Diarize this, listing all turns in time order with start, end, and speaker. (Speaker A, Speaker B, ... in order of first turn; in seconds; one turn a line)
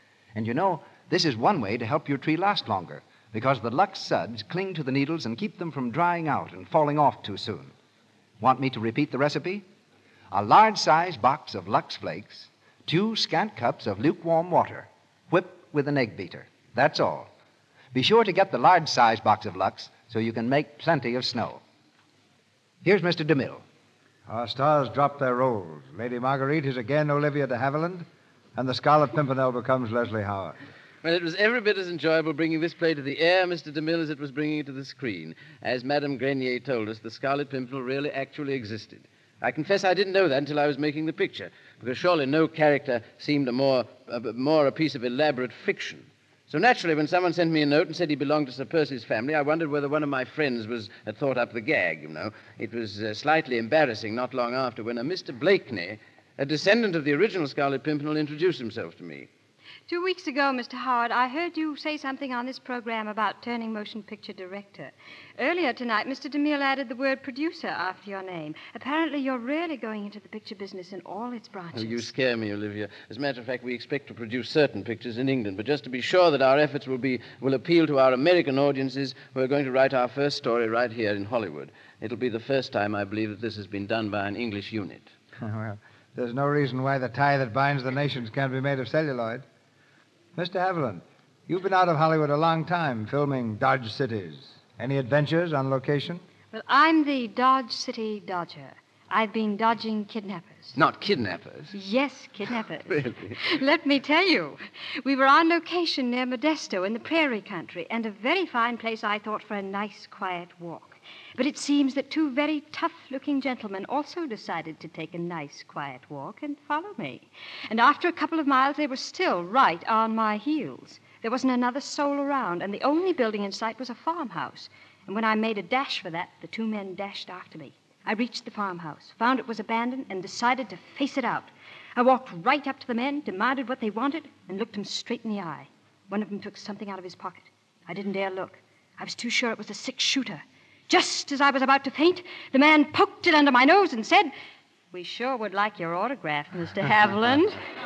Speaker A: 0.3-7.7
Speaker A: 8.4-9.6
Speaker A: 10.3-17.3
Speaker A: 17.9-21.6
Speaker A: 22.8-23.6
Speaker B: 24.3-30.6
Speaker C: 31.0-59.3
Speaker D: 59.9-72.1
Speaker C: 71.7-85.1
Speaker B: 85.4-89.4
Speaker B: 90.3-96.2
Speaker D: 96.5-100.8
Speaker C: 100.7-101.7
Speaker D: 101.7-144.3
Speaker C: 102.9-103.4
Speaker D: 144.9-147.6